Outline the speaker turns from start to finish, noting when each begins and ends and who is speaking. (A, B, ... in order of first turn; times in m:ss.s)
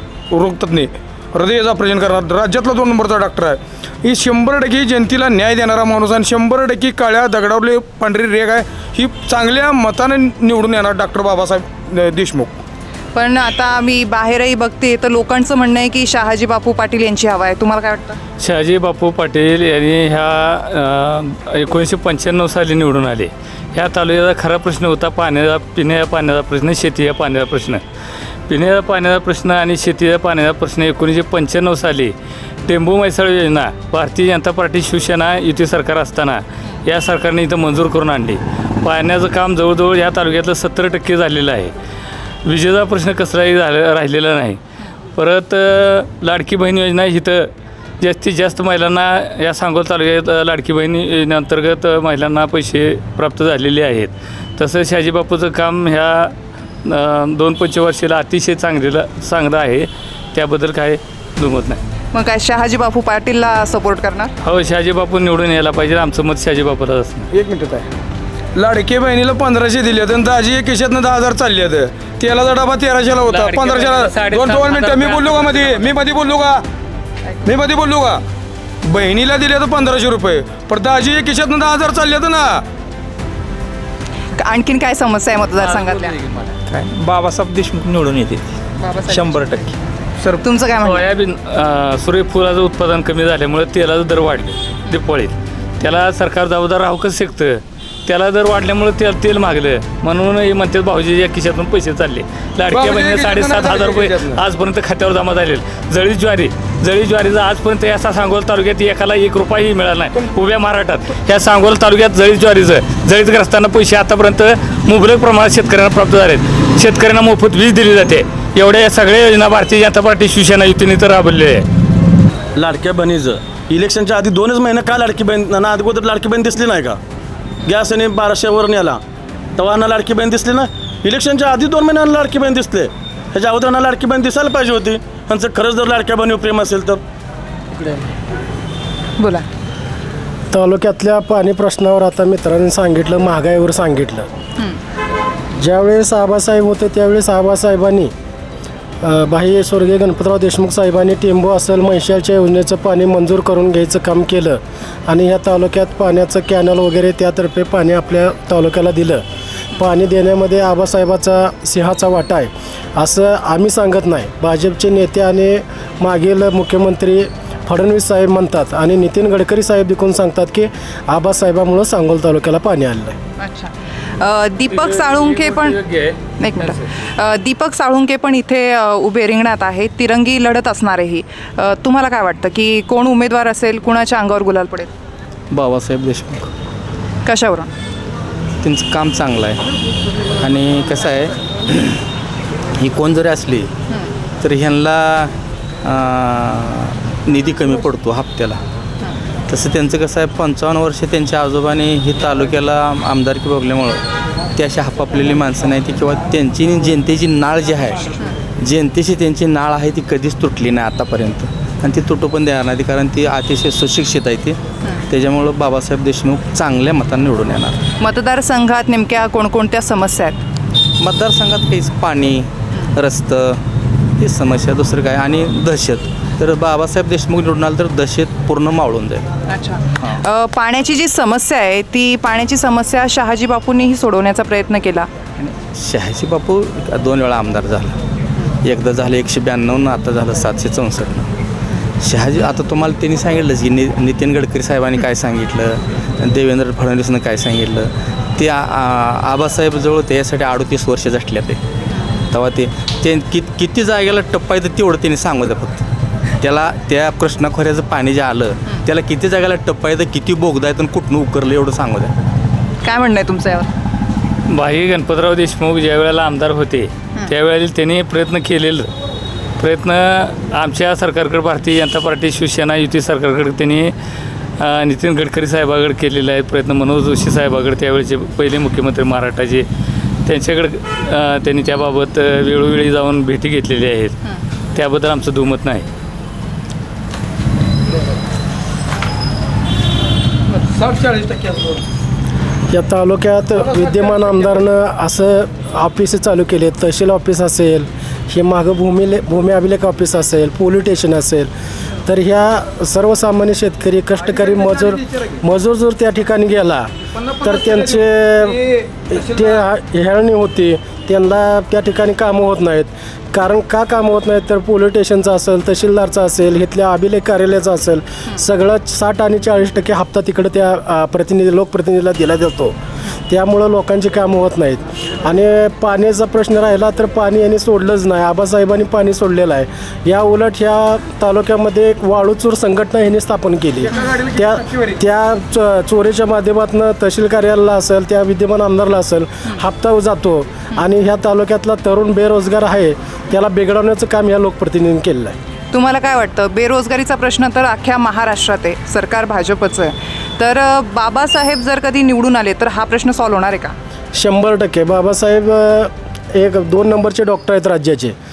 0:00.3-0:12.5 A
0:13.1-0:18.2 B
0:18.4-0:27.8 C
0:28.5-0:32.1 C
0:32.7-0:41.7 C
0:42.4-0:44.6 C
0:45.2-0:47.5 C
0:48.0-0:56.3 C
0:56.8-1:01.8 C
1:02.1-1:04.3 B
1:04.4-1:07.3 C
1:07.3-1:07.9 A
1:08.6-1:16.6 A
1:13.3-1:15.9 C
1:17.5-1:18.2 A
1:18.8-1:22.6 A
1:24.4-1:26.2 B
1:27.4-1:28.1 D
1:28.8-1:29.6 B
1:30.4-1:31.0 B
1:30.8-2:01.6 C
1:42.7-1:44.4 A
2:02.6-2:07.0 E
2:07.6-2:09.0 E
2:09.6-2:17.0 E
2:19.2-2:19.5 B
2:20.5-2:24.3 F
2:25.6-2:28.1 F
2:29.0-2:39.2 F
2:39.8-2:53.2 F
2:53.4-2:55.8 B
2:54.7-2:56.8 C
2:56.4-3:04.9 B
3:05.5-3:06.5 D
3:07.3-3:07.7 B
3:08.6-3:09.6 D
3:10.4-3:11.4 D
3:12.8-3:13.7 D
3:14.4-3:15.3 D
3:15.8-3:18.6 D
3:19.5-3:24.0 D
3:24.6-3:28.1 D
3:28.6-3:34.6 D
3:35.1-3:37.8 D
3:38.0-3:40.4 B
3:41.0-3:43.6 D
3:44.2-3:49.2 D
3:49.5-3:55.1 B
3:55.4-3:58.0 D
3:58.6-4:01.3 D
4:02.0-4:11.6 D
4:12.3-4:15.8 D
4:16.4-4:22.1 D
4:22.8-4:23.7 B
4:24.5-4:28.9 C
4:29.6-4:33.9 C
4:34.6-4:39.7 C
4:40.2-4:44.2 C
4:44.8-4:45.9 C
4:50.9-4:51.6 A
4:52.7-5:01.5 F
5:02.1-5:06.9 F
5:07.4-5:22.8 F
5:07.4-5:08.0 A
5:23.3-5:45.4 F
5:45.7-5:53.8 B
5:54.2-5:58.2 F